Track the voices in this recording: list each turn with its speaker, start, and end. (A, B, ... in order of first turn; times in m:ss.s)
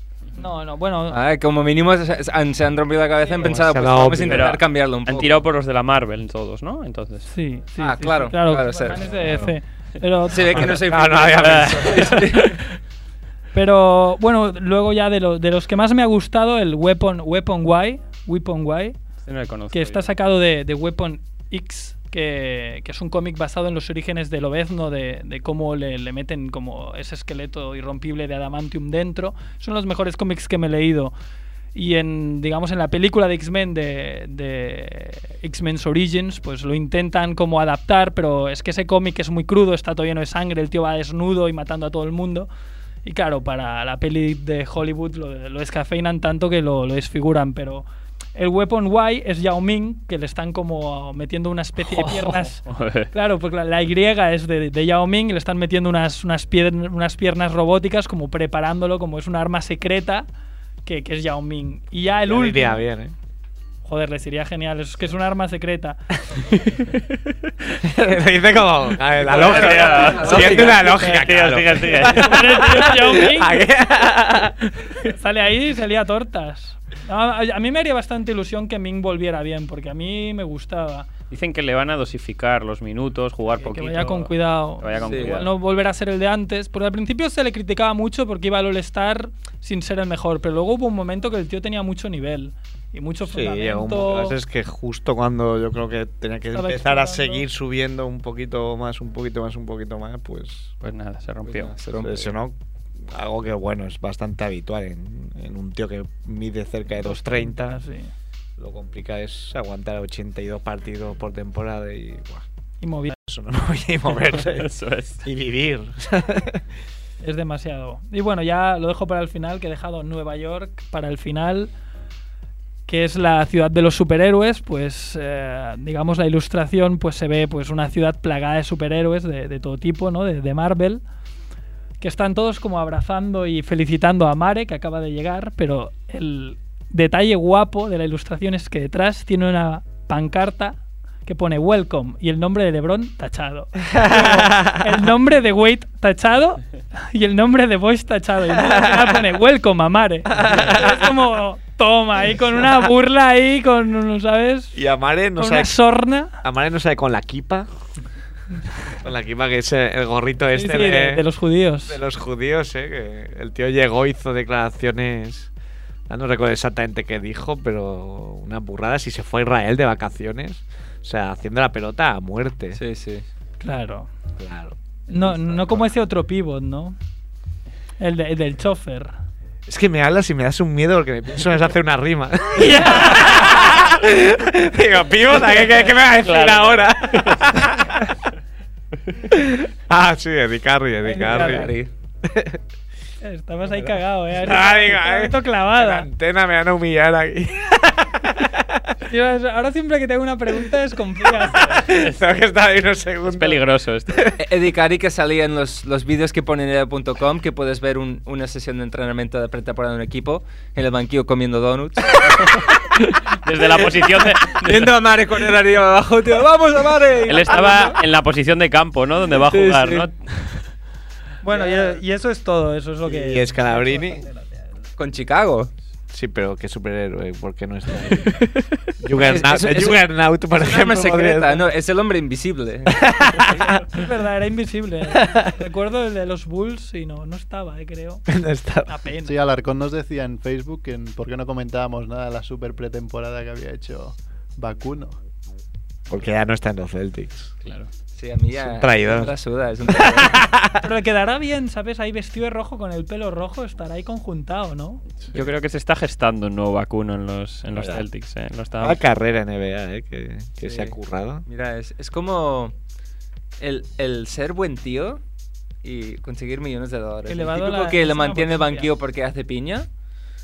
0:00.4-0:01.2 A
0:01.1-0:05.4 B
0:03.4-0:04.5 C
0:04.3-0:07.3 D
0:07.3-0:10.6 A
0:07.8-0:09.0 B
0:10.3-0:12.6 B
0:10.5-0:12.3 C
0:11.4-0:12.0 D
0:13.5-0:19.0 A
0:19.2-0:20.1 D
0:19.7-0:31.1 A
0:31.7-0:42.5 A
0:43.0-1:00.2 A
0:51.8-0:53.1 D
1:00.8-1:02.8 A
1:02.3-1:03.1 C
1:03.8-1:06.0 A
1:06.8-1:07.1 D
1:07.8-1:14.6 C
1:09.3-1:10.9 B
1:09.3-1:12.3 D
1:12.1-1:13.6 A
1:15.0-1:21.1 A
1:21.3-1:25.5 D
1:23.5-1:34.4 A
1:25.1-1:25.4 B
1:33.2-1:40.7 C
1:36.5-1:37.4 A
1:40.8-1:41.7 D
1:41.4-1:42.3 B
1:42.0-1:47.8 C
1:47.0-1:48.1 A
1:48.6-1:52.4 C
1:52.8-1:53.2 A
1:53.2-1:56.6 C
1:54.5-1:55.2 D
1:57.2-2:01.7 A
2:02.9-2:11.0 A
2:12.0-2:34.8 A
2:23.9-2:25.0 C
2:28.5-2:29.2 C
2:30.3-2:31.2 C
2:34.7-2:35.7 C
2:35.4-2:36.4 A
2:36.4-2:37.7 C
2:38.8-2:41.2 C
2:40.5-2:42.0 A
2:41.8-2:45.5 C
2:46.1-2:52.8 C
2:52.8-2:53.2 B
2:53.6-2:54.1 A
2:54.4-2:55.8 C
2:55.1-2:57.0 A
2:58.0-2:59.1 A
2:59.7-3:08.0 C
3:02.5-3:03.8 A
3:06.2-3:07.7 D
3:09.3-3:11.7 C
3:11.0-3:11.7 A
3:11.2-3:11.9 B
3:12.2-3:12.6 C
3:13.2-3:16.1 A
3:13.8-3:18.9 C
3:19.0-3:21.9 A
3:21.4-3:24.3 C
3:23.2-3:24.3 D
3:24.4-3:32.6 B
3:33.4-3:34.9 D
3:33.6-3:37.9 B
3:37.2-3:40.6 D
3:37.3-3:38.0 A
3:39.3-3:40.1 B
3:41.4-3:44.7 A
3:41.5-3:42.0 B
3:43.0-3:44.2 C
3:45.0-3:45.7 B
3:46.1-3:48.4 C
3:49.0-3:51.6 C
3:49.2-3:53.1 B
3:52.9-3:53.8 C
3:53.8-3:58.2 A
3:55.1-3:55.5 C
3:58.3-3:59.0 C
3:58.9-3:59.4 A
3:59.2-4:05.2 E
4:06.1-4:07.5 C
4:08.2-4:10.4 B
4:08.6-4:09.3 C
4:09.9-4:10.8 C
4:10.8-4:15.0 A
4:15.3-4:19.0 D
4:17.7-4:18.0 C
4:18.8-4:21.4 C
4:20.6-4:20.9 B
4:21.4-4:22.7 B
4:23.6-4:25.2 B
4:25.8-4:29.9 B
4:27.3-4:28.9 A